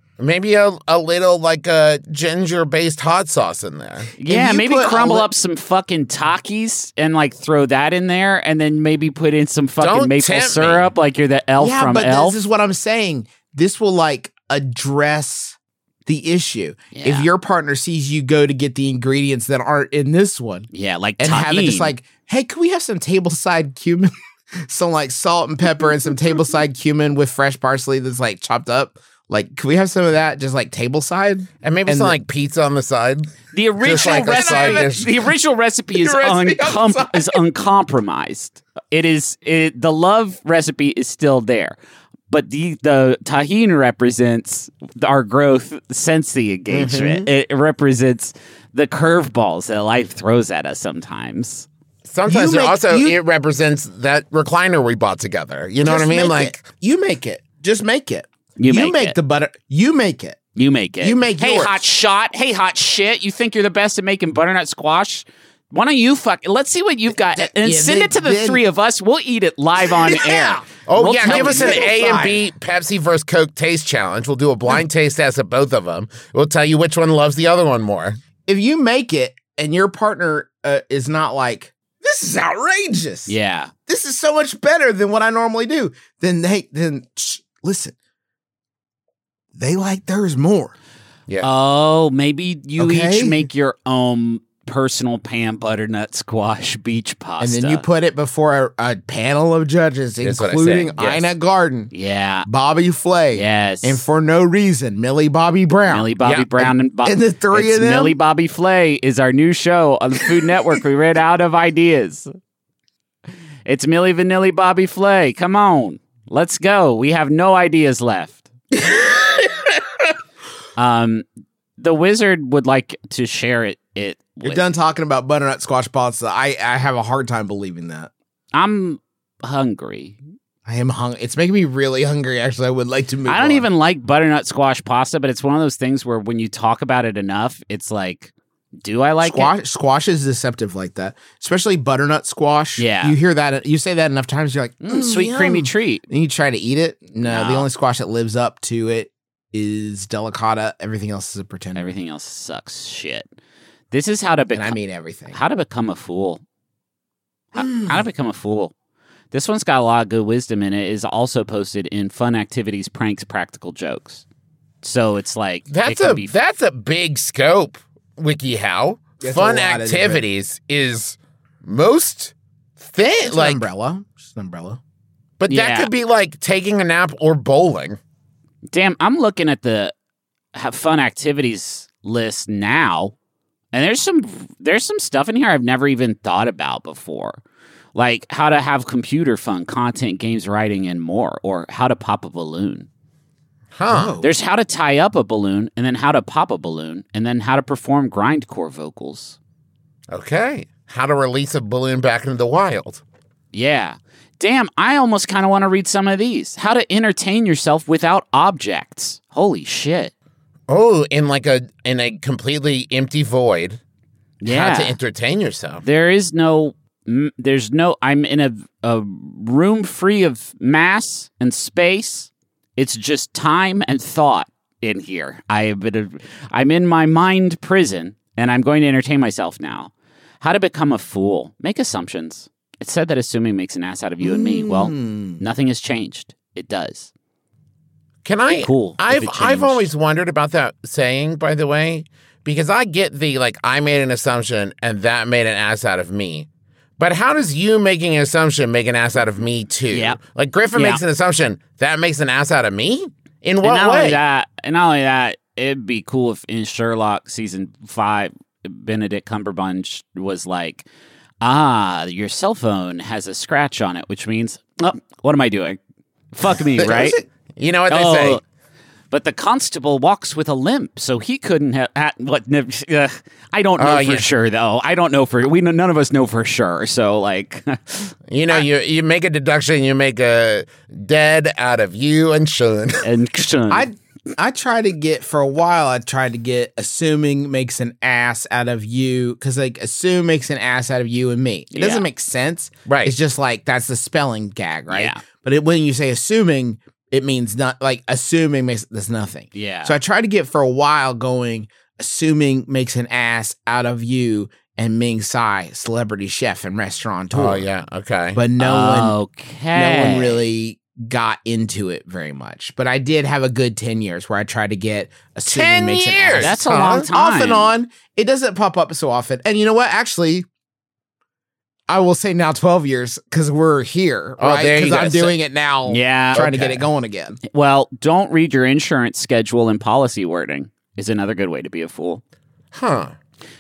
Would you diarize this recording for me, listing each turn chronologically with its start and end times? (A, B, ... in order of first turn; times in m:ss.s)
0:00.2-0:04.1 A
0:04.2-0:12.4 B
0:04.3-0:05.3 C
0:09.8-0:10.9 A
0:11.6-0:20.7 C
0:16.9-0:17.3 B
0:20.7-0:22.0 B
0:21.2-0:32.2 C
0:31.6-0:35.1 A
0:33.5-0:41.8 B
0:33.8-0:35.1 C
0:35.9-0:37.4 C
0:42.3-0:51.7 B
0:46.7-0:47.3 A
0:52.1-0:56.6 A
0:52.3-0:53.2 C
0:55.8-1:00.4 C
0:58.6-0:59.2 B
1:00.6-1:11.9 B
1:01.0-1:01.8 C
1:07.4-1:08.6 C
1:09.8-1:12.4 C
1:10.8-1:18.2 A
1:18.5-1:23.4 C
1:23.3-1:23.7 B
1:23.9-1:28.0 C
1:29.6-1:30.7 C
1:31.4-1:37.8 B
1:32.8-1:33.5 C
1:37.4-1:41.9 C
1:40.2-1:41.2 A
1:41.9-1:42.5 B
1:42.5-1:48.2 C
1:43.3-1:44.0 B
1:45.9-1:52.3 B
1:53.7-1:58.5 B
1:58.8-1:59.7 C
2:00.8-2:01.2 B
2:01.8-2:04.6 B
2:04.4-2:08.1 C
2:08.5-2:10.2 B
2:10.7-2:13.7 C
2:13.3-2:19.5 B
2:19.2-2:31.9 C
2:22.8-2:23.2 B
2:24.8-2:26.0 B
2:27.2-2:27.7 B
2:31.8-2:33.3 B
2:33.9-2:34.8 B
2:34.5-2:35.4 C
2:35.3-2:36.4 B
2:37.5-2:38.7 B
2:37.6-2:38.0 C
2:39.3-2:44.2 B
2:44.8-2:46.3 B
2:45.7-2:53.6 A
2:49.2-2:50.2 C
2:53.2-2:54.8 C
2:55.4-2:58.0 A
2:55.5-2:55.9 B
2:58.7-2:59.9 B
3:00.6-3:03.1 B
3:03.7-3:07.4 B
3:08.0-3:12.9 B
3:13.7-3:14.2 A
3:13.9-3:14.3 C
3:14.2-3:19.4 B
3:20.1-3:23.0 A
3:23.5-3:30.1 B
3:30.7-3:33.8 A
3:34.4-3:35.0 B
3:34.4-3:35.8 A
3:35.8-3:57.1 B
3:54.2-3:55.4 C
3:58.2-4:06.5 A
3:58.6-3:59.8 B
4:07.0-4:14.2 A
4:09.9-4:10.2 B
4:10.7-4:11.0 B
4:13.6-4:20.9 B
4:21.4-4:25.8 B
4:26.3-4:27.2 B
4:26.8-4:28.4 A
4:27.9-4:28.4 B
4:29.1-4:38.1 B
4:33.8-4:34.3 A
4:38.3-4:43.0 A
4:43.0-4:43.9 B
4:43.7-5:07.7 C
4:51.7-4:52.1 B
4:52.9-4:53.1 A
4:54.9-4:55.2 B
4:59.5-5:00.0 B
5:07.3-5:08.4 A
5:08.4-5:09.2 C
5:08.6-5:10.4 B
5:09.7-5:20.5 C
5:15.5-5:17.1 A
5:16.4-5:17.7 B
5:21.9-5:27.4 C
5:24.4-5:25.3 A
5:25.9-5:26.8 B
5:27.5-5:32.2 B
5:32.7-5:33.2 A